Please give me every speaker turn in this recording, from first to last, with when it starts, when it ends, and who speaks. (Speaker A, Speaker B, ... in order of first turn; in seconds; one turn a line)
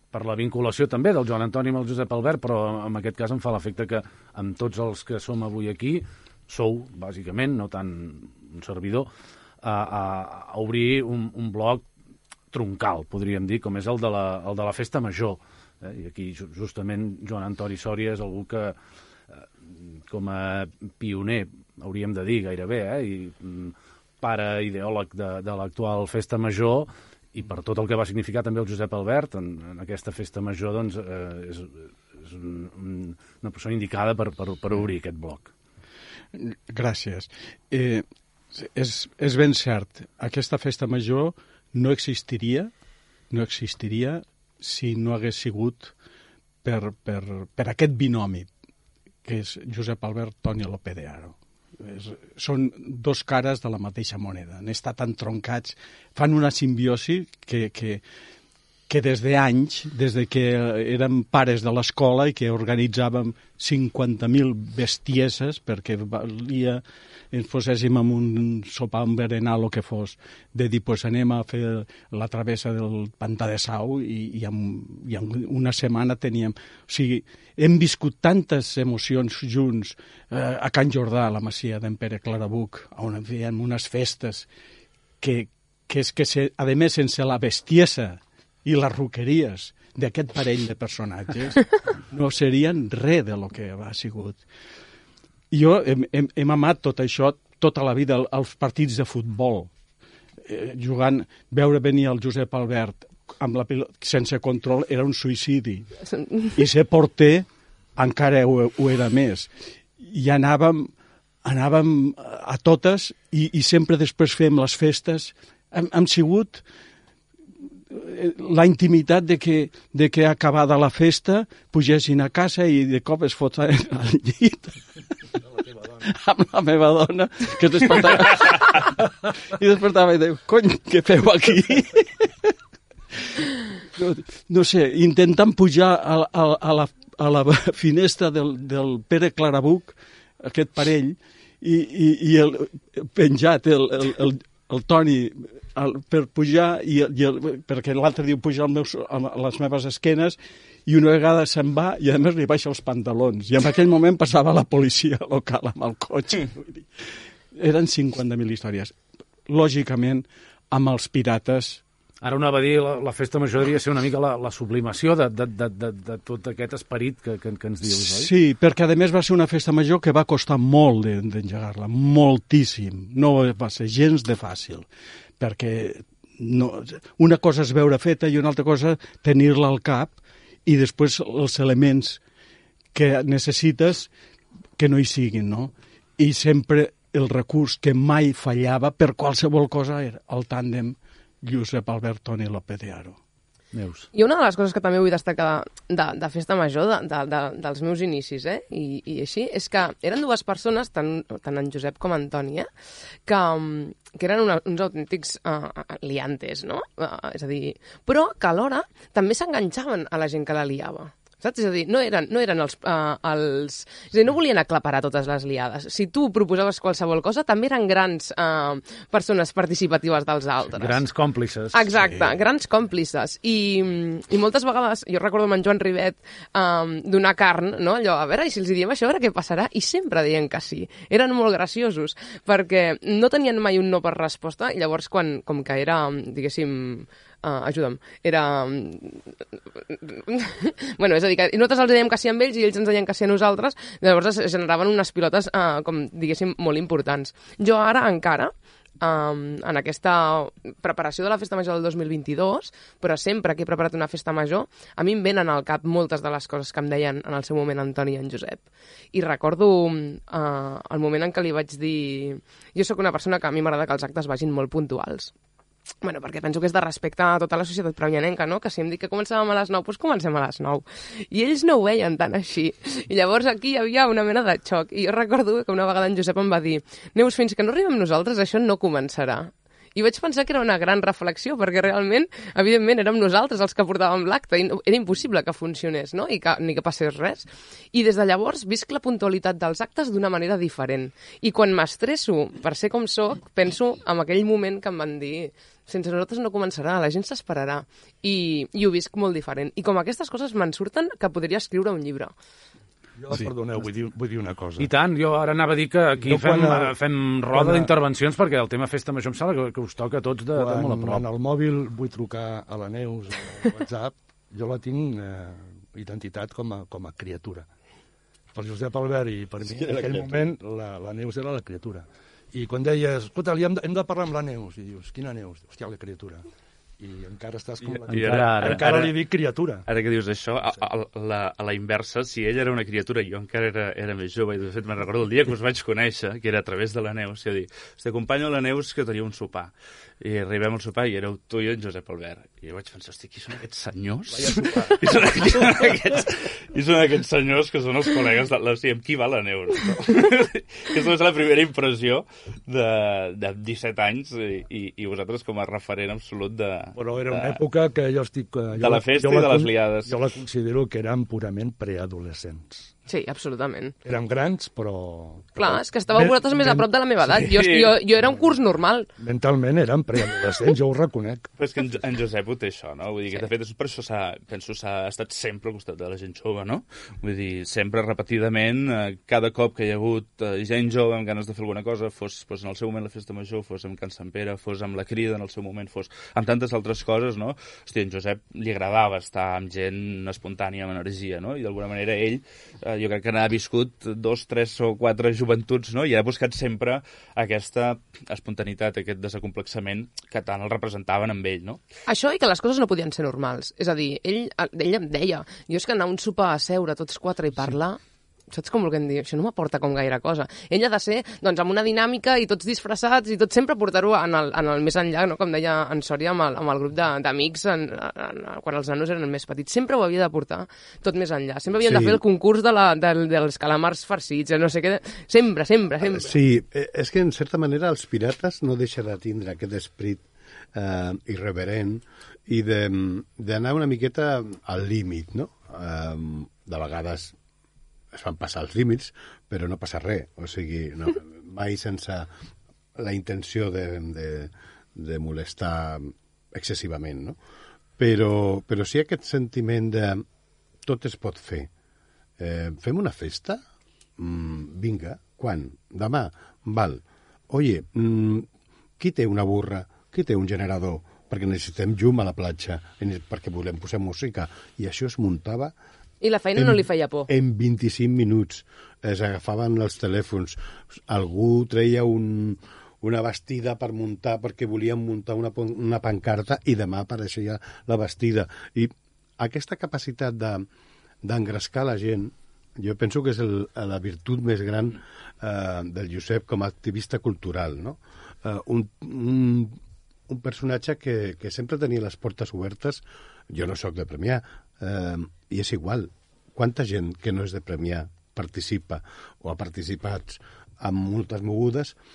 Speaker A: 0.1-9.1
Speaker A: 9.6-11.8
Speaker A: 12.5-18.8
Speaker A: 20.1-35.5
Speaker B: 36.4-42.7
Speaker B: 43.3-45.9
Speaker B: 46.6-48.5
Speaker B: 49.2-58.0
Speaker B: 58.9-84.5
Speaker B: 85.2-94.4
Speaker B: 95.5-99.7
Speaker B: 100.5-105.8
Speaker C: 106.2-106.5
Speaker B: 106.6-107.5
Speaker B: 108.0-109.5
Speaker B: 110.0-110.9
Speaker B: 111.5-116.6
Speaker B: 117.9-124.7
Speaker B: 126.1-128.9
Speaker B: 129.6-132.3
Speaker B: 134.0-156.9
Speaker B: 157.6-161.8
Speaker A: 162.2-168.3
Speaker B: 168.1-174.9
Speaker B: 175.4-182.2
Speaker B: 182.9-184.1
Speaker B: 184.8-193.2
Speaker A: 193.7-194.1
Speaker C: 194.1-202.7
Speaker C: 203.3-221.0
Speaker A: 220.8-222.2
Speaker C: 221.7-239.4
Speaker C: 239.9-265.3
Speaker C: 266.0-302.3
Speaker D: 303.2-304.9
Speaker A: 304.8-311.3
Speaker D: 306.2-306.9
Speaker D: 307.5-307.9
Speaker D: 310.5-317.7
Speaker D: 318.5-326.4
Speaker E: 319.8-320.3
Speaker D: 327.0-329.8
Speaker A: 328.1-329.0
Speaker F: 328.1-329.1
Speaker F: 329.9-357.6
Speaker D: 344.4-345.5
Speaker D: 357.0-362.9
Speaker F: 358.8-360.1
Speaker C: 363.1-363.9
Speaker D: 364.1-366.9
Speaker C: 365.6-369.1
Speaker F: 367.2-367.9
Speaker D: 369.2-371.5
Speaker F: 371.6-401.8
Speaker C: 402.1-408.0
Speaker C: 408.5-426.4
Speaker E: 421.8-422.2
Speaker E: 426.0-437.4
Speaker E: 438.1-442.3
Speaker E: 443.0-447.4
Speaker E: 448.0-450.2
Speaker E: 450.9-451.7
Speaker E: 452.4-453.6
Speaker E: 454.2-458.5
Speaker E: 459.0-465.7
Speaker C: 466.2-467.3
Speaker E: 466.6-480.6
Speaker E: 481.2-489.8
Speaker E: 490.3-502.0